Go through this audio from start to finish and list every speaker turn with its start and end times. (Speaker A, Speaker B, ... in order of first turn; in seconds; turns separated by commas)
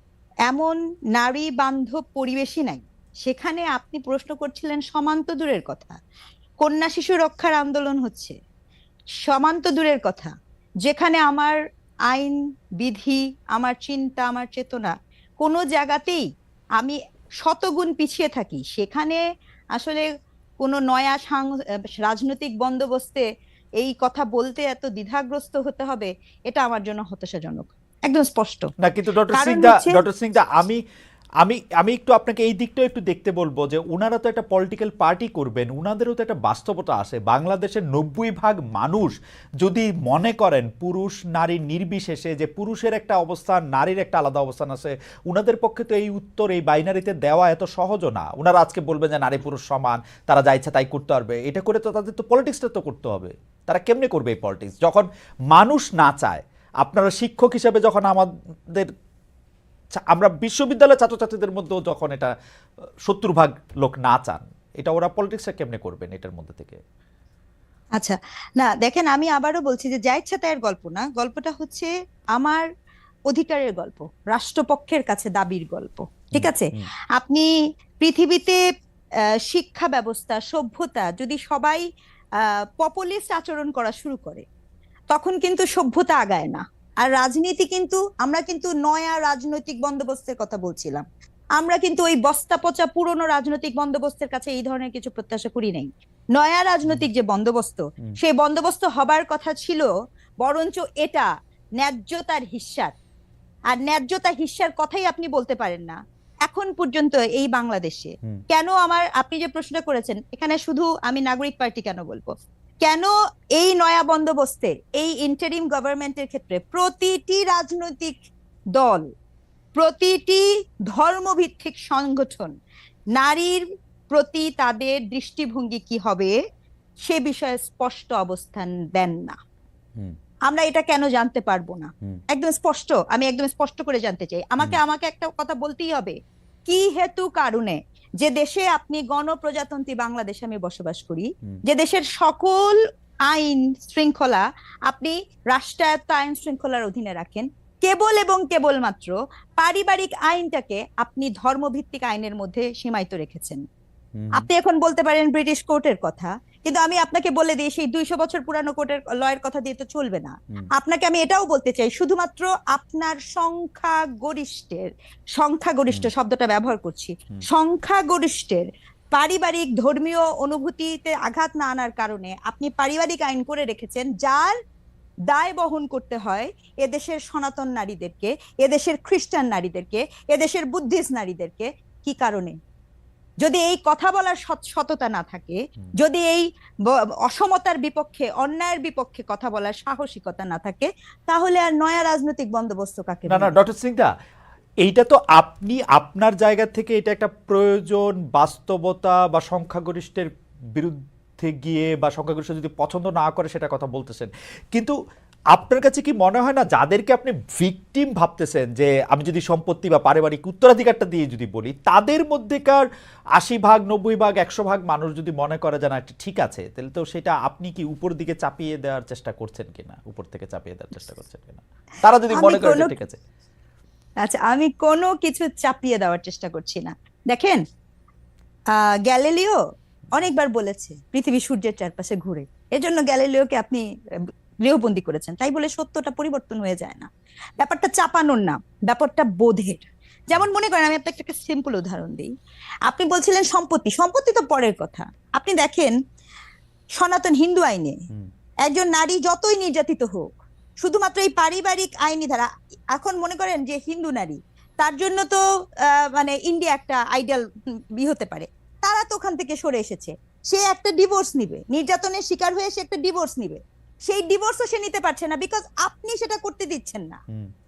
Speaker A: 0.5-6.0, Speaker A: 6.6-8.3, Speaker A: 9.2-10.3, Speaker A: 10.8-11.6, Speaker A: 12.1-16.2, Speaker A: 16.8-19.2, Speaker A: 19.8-20.0, Speaker A: 20.6-23.2, Speaker A: 23.8-28.7, Speaker B: 28.8-30.8, Speaker A: 29.3-30.0, Speaker B: 31.4-58.9, Speaker B: 60.0-62.3, Speaker B: 63.0-66.8, Speaker A: 68.0-72.6, Speaker A: 73.3-77.5, Speaker B: 76.3-76.9, Speaker A: 78.0-78.6, Speaker A: 79.5-81.8, Speaker A: 82.4-84.4, Speaker A: 85.1-91.0, Speaker A: 91.6-99.9, Speaker A: 100.4-101.3, Speaker A: 101.8-102.9, Speaker A: 103.7-112.3, Speaker A: 112.8-118.1, Speaker A: 118.8-119.0, Speaker A: 119.7-122.5, Speaker A: 123.2-126.3, Speaker A: 127.1-129.4, Speaker A: 130.5-153.6, Speaker B: 154.1-154.5, Speaker A: 154.3-174.6, Speaker A: 175.3-182.5, Speaker A: 183.4-186.4, Speaker A: 187.2-193.5, Speaker B: 193.3-194.1, Speaker B: 194.8-204.9, Speaker B: 205.5-212.8, Speaker B: 213.4-223.2, Speaker A: 222.3-222.9, Speaker A: 224.2-227.6, Speaker A: 228.8-229.6, Speaker A: 230.1-233.8, Speaker A: 234.6-237.1, Speaker A: 237.6-242.3, Speaker A: 242.9-245.9, Speaker A: 247.0-247.9, Speaker A: 248.7-250.3, Speaker A: 250.8-257.4, Speaker A: 258.0-267.2